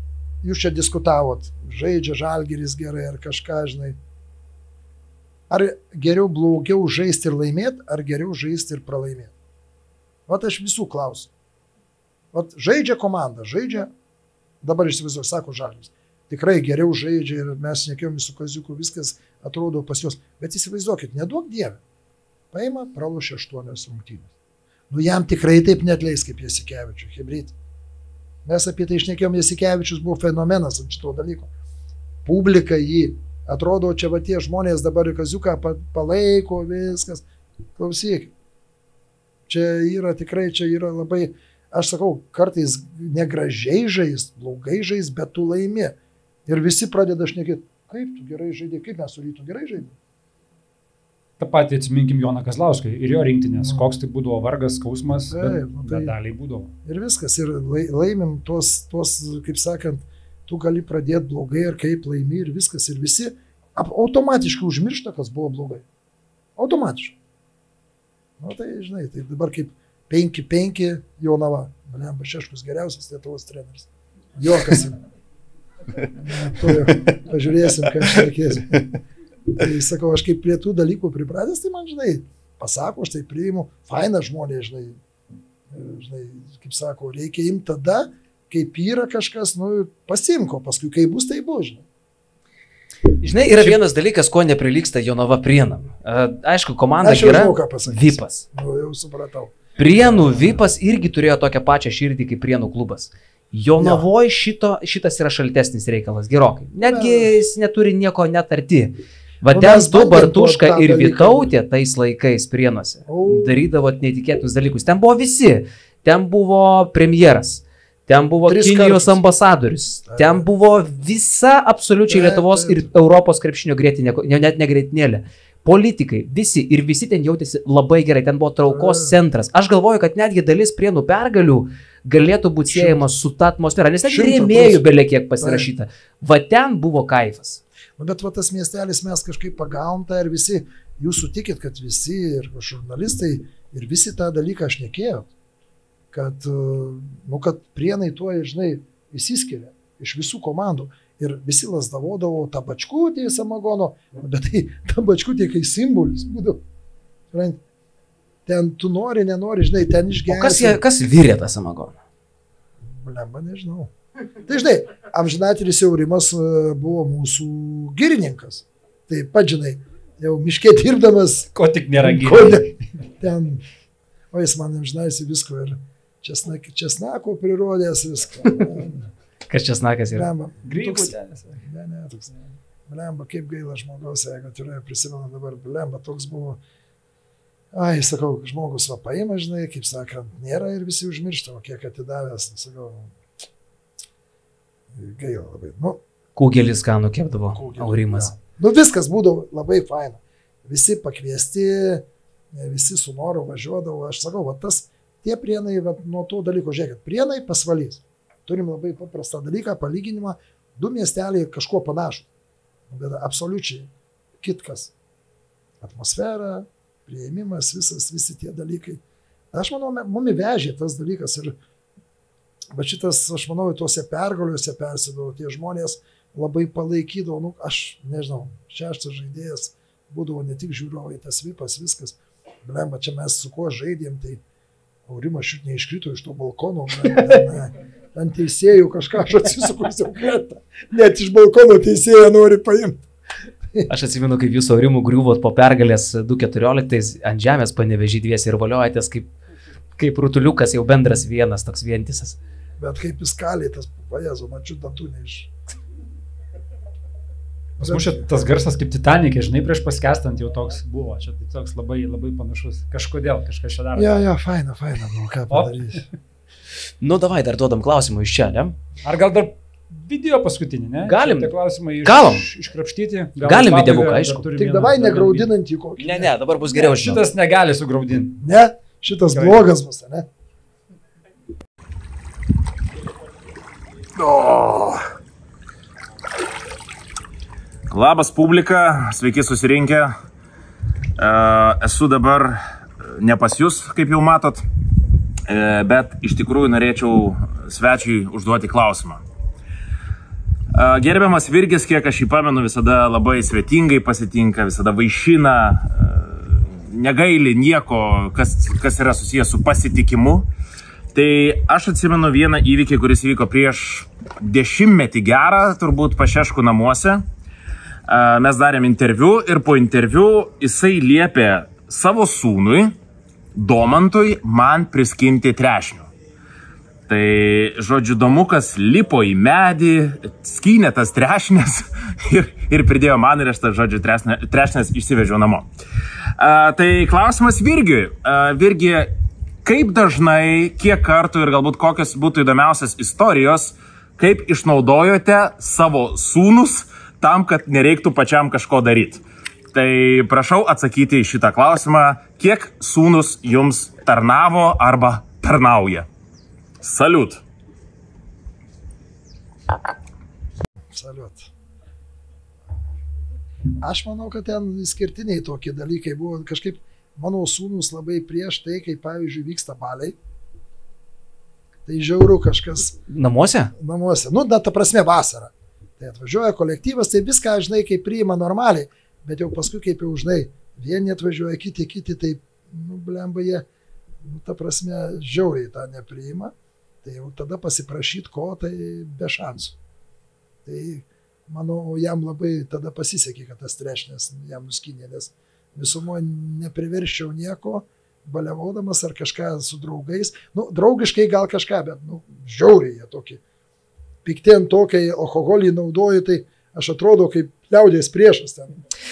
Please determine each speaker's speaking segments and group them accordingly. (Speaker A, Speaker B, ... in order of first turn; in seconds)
Speaker A: 0.4-4.0, 5.5-9.3, 10.3-11.3, 12.3-13.9, 14.6-21.8, 22.5-24.3, 24.9-27.5, 28.4-31.5, 32.2-37.2, 37.8-38.3, 39.5-50.0, 53.6-53.9, 55.3-56.1, 56.8-65.8, 66.5-67.2, 68.4-75.0, 76.2-79.0, 79.5-85.0, 85.7-91.8, 97.0-100.6, 103.8-104.0, 106.8-107.3, 109.5-111.5, 113.1-113.6, 118.5-119.2, 120.0-120.4, 122.1-122.9, 128.6-129.2, 132.7-133.0, 134.0-134.9, 135.4-135.7, 138.0-145.3, 146.1-156.6, 157.3-157.6, 158.4-160.8, 162.8-163.9, 164.4-173.6, 174.3-179.1, 180.1-182.3, 182.9-186.6, 187.7-193.1, 194.9-196.0, 197.5-212.3, 212.9-214.9, 215.8-219.0, 219.5-221.6, 222.7-234.4, 235.1-243.1, 252.8-255.5, 257.8-258.4, 263.9-266.1, 274.6-276.3, 278.4-280.3, 360.9-361.5, 363.8-370.2, 371.9-373.0, 373.8-383.6, 384.2-389.8, 390.6-403.4, 404.2-408.8
Speaker B: 51.4-56.7, 171.5-172.7, 180.6-181.6, 257.8-264.1, 265.5-265.8, 269.0-275.5, 276.7-278.4, 279.3-279.7
Speaker C: 93.2-98.5, 99.8-137.6, 160.3-162.0, 179.5-180.3, 196.3-198.3, 243.9-249.3, 250.0-252.4, 267.0-268.8, 271.0-272.4, 273.4-274.4, 276.0-277.2, 373.1-373.7
Speaker D: 287.9-290.1, 291.2-294.6, 295.5-299.2, 300.7-310.4, 311.1-317.2, 318.1-322.9, 323.5-326.1, 327.1-335.7, 336.4-339.1, 339.6-349.2, 349.7-356.1, 356.8-357.4